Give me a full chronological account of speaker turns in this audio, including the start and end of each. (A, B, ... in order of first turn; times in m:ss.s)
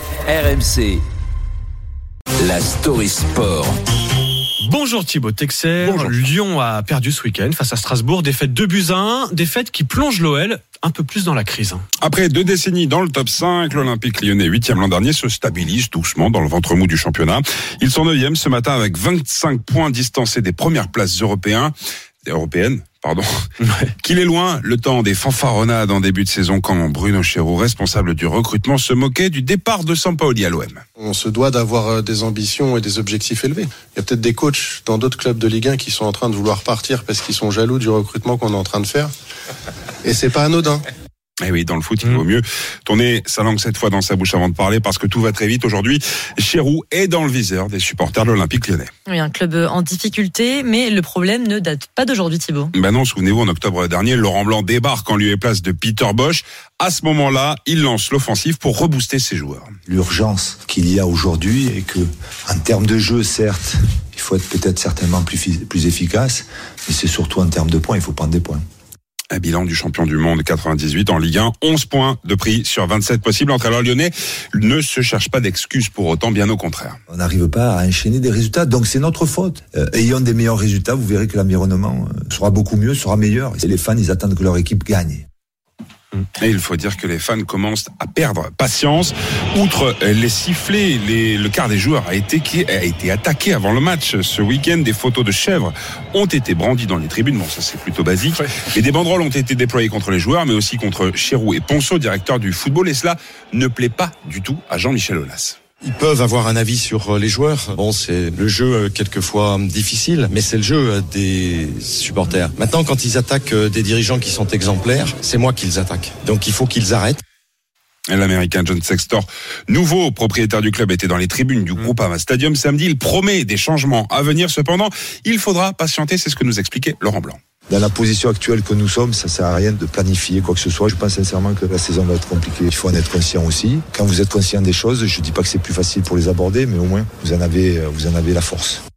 0:00.2-0:01.0 A
0:02.4-0:03.8 A
0:04.6-0:11.8 B
0:12.0-0:21.7 C
0:22.2-0:23.2 C
0:23.6-0:23.9 B
0:24.0-0:30.8 C
0:31.0-0:39.1 D
0:40.0-0:40.8 D
0:41.4-0:48.9 C
0:49.1-0:52.7 E
0:52.7-0:59.7 C
0:59.9-1:08.6 F
1:09.3-1:17.0 C
1:17.1-1:25.2 F
1:26.4-1:45.6 C
1:45.8-1:57.2 G
1:58.1-2:07.4 C
2:07.7-2:18.8 F